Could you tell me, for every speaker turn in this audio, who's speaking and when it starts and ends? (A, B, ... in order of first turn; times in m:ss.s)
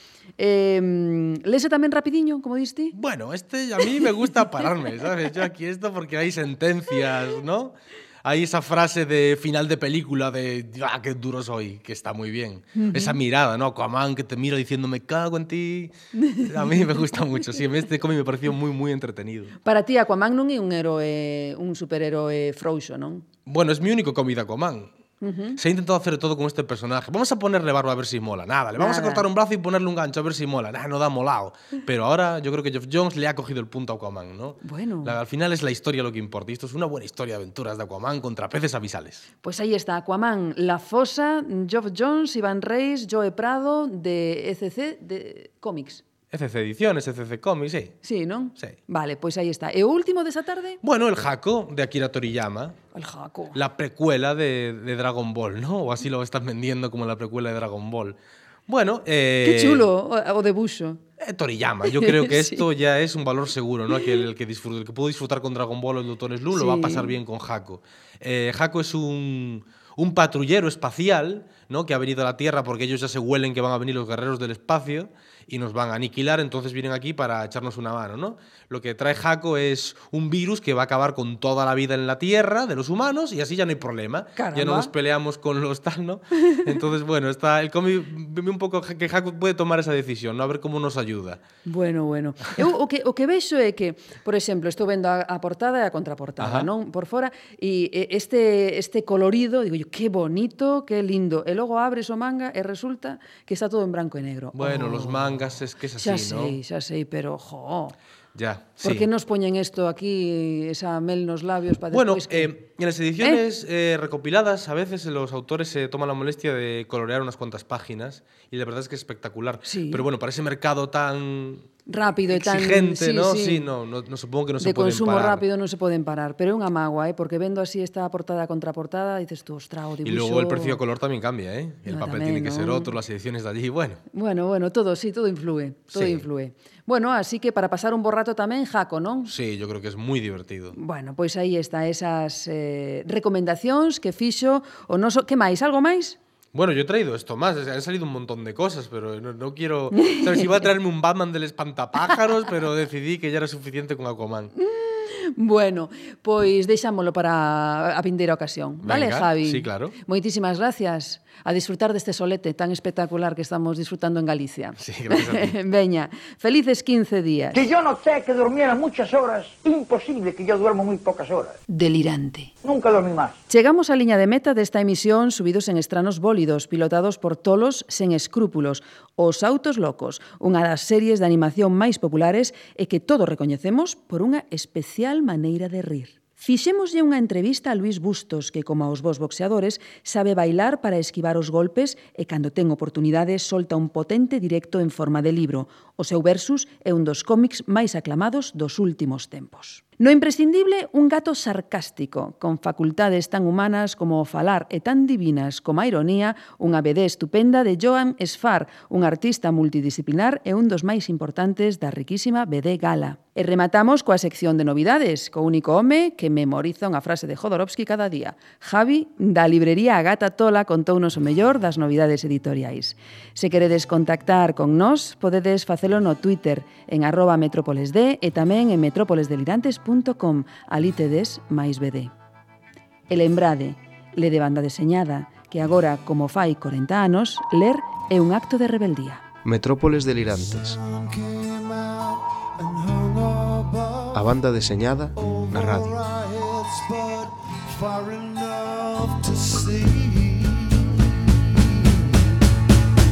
0:00.4-0:02.9 A
0:02.9-0:07.7 B
0:08.2-0:19.5 B
0:12.7-0:13.2 A
0:16.2-0:16.9 A
0:19.6-0:23.2 A
0:23.5-0:24.9 B
0:25.2-0:25.6 A
0:25.6-0:39.2 B
0:28.8-0:29.3 A
0:34.6-0:35.1 A
0:39.4-0:46.0 A
0:46.3-0:47.9 B
0:48.0-0:50.8 A
0:50.8-0:52.8 B
0:52.9-0:53.6 A
0:53.5-0:58.2 B
0:58.7-0:59.9 B
0:59.4-1:01.0 A
1:01.2-1:31.4 B
1:01.9-1:02.6 A
1:06.5-1:07.1 A
1:24.4-1:24.9 A
1:31.6-1:45.4 A
1:36.4-1:36.7 B
1:44.5-1:46.6 B
1:46.0-1:47.9 A
1:48.3-1:49.1 B
1:48.8-1:52.5 A
1:51.9-2:01.7 B
1:59.6-2:00.0 A
2:01.9-2:03.7 A
2:02.3-2:05.4 B
2:04.6-2:10.8 A
2:10.0-2:14.0 B
2:11.8-2:12.9 A
2:14.1-2:19.3 A
2:15.9-2:16.3 B
2:19.2-2:20.8 B
2:20.7-2:26.2 A
2:26.5-2:34.5 B
2:29.9-2:30.3 A
2:34.6-2:47.6 A
2:38.8-2:39.9 B
2:44.8-2:45.5 B
2:47.5-2:51.6 C
2:51.7-2:52.5 A
2:52.6-2:53.4 C
2:53.5-3:52.1 A
3:53.1-3:59.2 A
3:59.4-4:00.8 D
4:00.5-4:04.3 E
4:04.1-4:06.0 D
4:05.2-4:12.0 E